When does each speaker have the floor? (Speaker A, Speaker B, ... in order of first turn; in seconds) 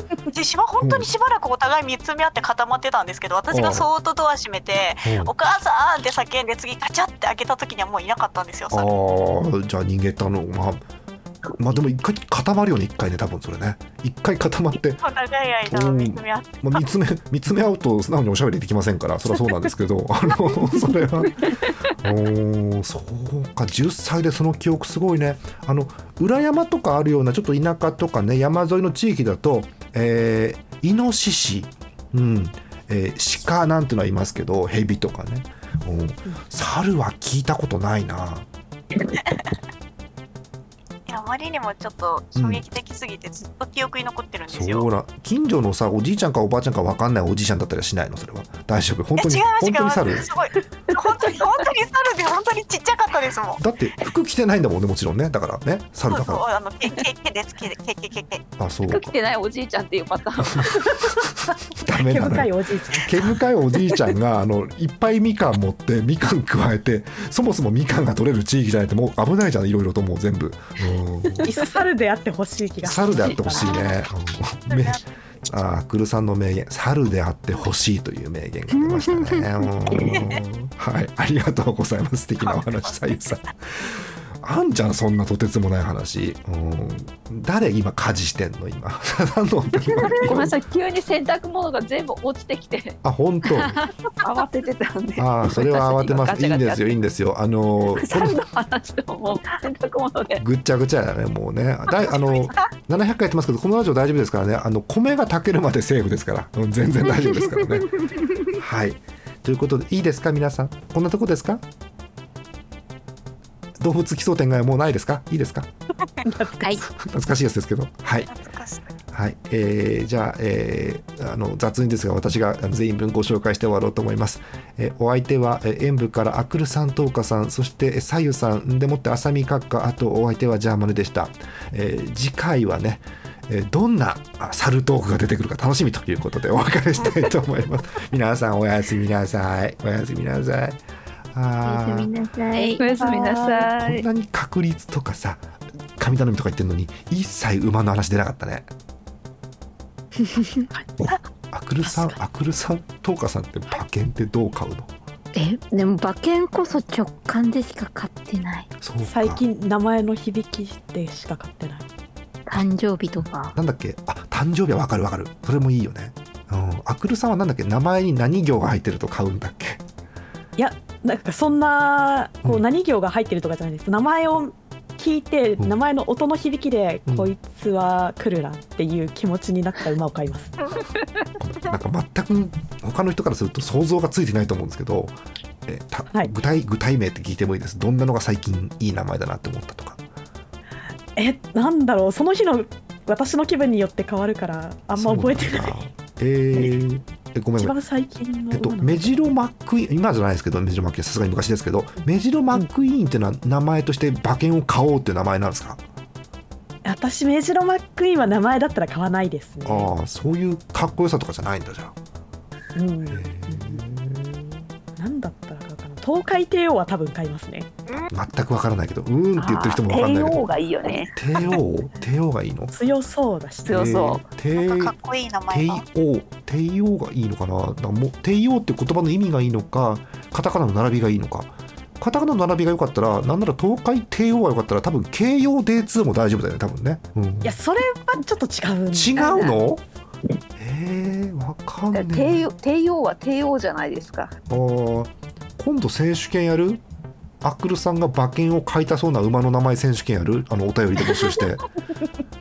Speaker A: 0.3-8.9, 15.0-16.8, 39.2-39.5, 41.1-44.9, 49.2-53.6, 56.1-58.4, 73.6-73.9, 74.7-75.6, 80.0-80.4, 102.3-102.7, 118.3-118.9, 224.5-225.8
Speaker B: 0.8-1.1, 3.5-3.9, 5.0-5.3, 8.7-10.8, 11.6-15.0, 15.7-38.5, 42.4-42.6, 44.5-50.3, 53.6-56.4, 58.6-59.1, 60.5-60.9, 61.8-62.5, 63.0-71.5, 72.8-90.5, 93.0-93.8, 95.2-98.4, 100.4-111.6, 113.8-115.7, 116.8-118.3, 119.1-140.8, 141.3-142.1, 143.7-148.7, 151.5-154.9, 158.8-159.4, 163.5-169.8, 177.1-177.3, 181.4-190.0, 194.9-197.8, 198.5-205.8, 209.6-211.9, 213.1-214.5, 218.1-220.4, 221.1-222.7, 223.7-224.9, 225.5-237.6, 238.9-239.8, 240.6-242.4, 244.5-246.8, 247.4-251.6
Speaker C: 58.9-61.1, 90.0-96.9, 98.0-100.4, 142.8-144.0, 219.4-221.6, 223.7-224.2, 239.2-239.6, 241.9-244.3
Speaker D: 62.0-63.1, 71.4-73.9, 116.2-116.7, 142.6-143.7, 150.7-151.2, 151.8-152.2, 159.0-161.8, 170.6-180.6, 191.2-195.8, 197.6-199.3, 206.8-209.9, 212.8-213.8, 214.9-217.7, 222.7-224.2, 237.4-239.5
Speaker E: 78.8-80.1, 107.6-108.5, 141.6-142.8, 155.3-158.7, 162.5-163.6